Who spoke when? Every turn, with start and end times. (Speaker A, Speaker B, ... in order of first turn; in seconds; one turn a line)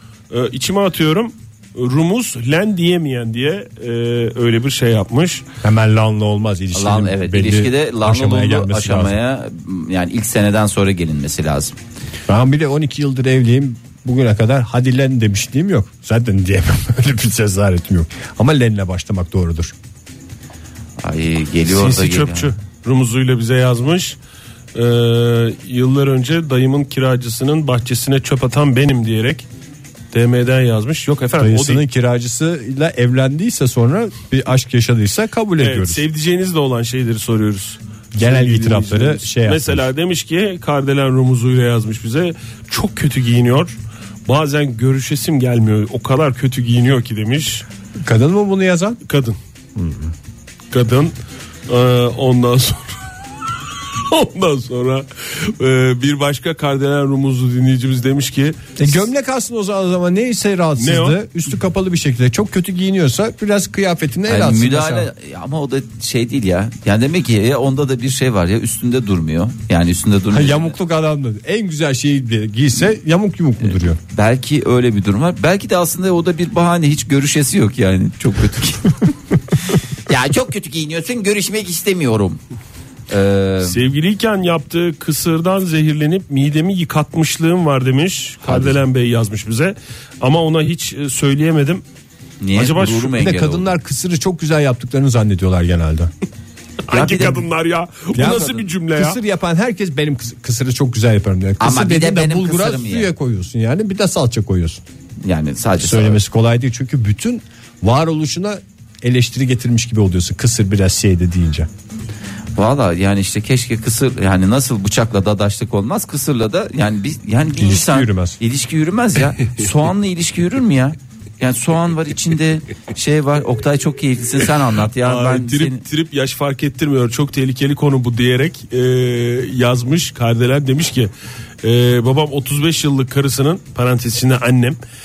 Speaker A: 0.3-5.4
Speaker B: 5.6-9.2
Speaker C: 6.7-11.7
Speaker B: 12.3-19.7
Speaker C: 21.0-22.5
Speaker A: 21.6-24.2
Speaker A: 24.7-29.5
Speaker A: 30.1-31.8
Speaker B: 31.4-36.0
Speaker A: 35.6-47.6
Speaker B: 38.1-39.9
Speaker B: 48.0-49.0
Speaker A: 49.0-49.4
Speaker B: 49.8-50.1
Speaker A: 50.7-51.1
Speaker A: 51.7-53.0
Speaker A: 54.1-58.6
Speaker B: 58.8-65.1
Speaker A: 60.8-61.1
Speaker C: 64.3-70.7
Speaker B: 70.3-74.0
Speaker C: 73.6-79.0
Speaker C: 80.0-82.4
Speaker C: 83.1-83.8
Speaker A: 83.6-91.8
Speaker C: 88.4-88.8
Speaker C: 92.4-93.7
Speaker A: 92.5-93.2
Speaker B: 93.2-96.1
Speaker A: 96.8-99.2
Speaker C: 96.9-97.4
Speaker B: 98.1-104.8
Speaker C: 98.2-98.7
Speaker C: 101.6-103.1
Speaker C: 105.2-106.2
Speaker B: 105.8-111.7
Speaker C: 112.5-125.8
Speaker B: 117.6-118.4
Speaker A: 125.0-131.1
Speaker A: 131.6-134.8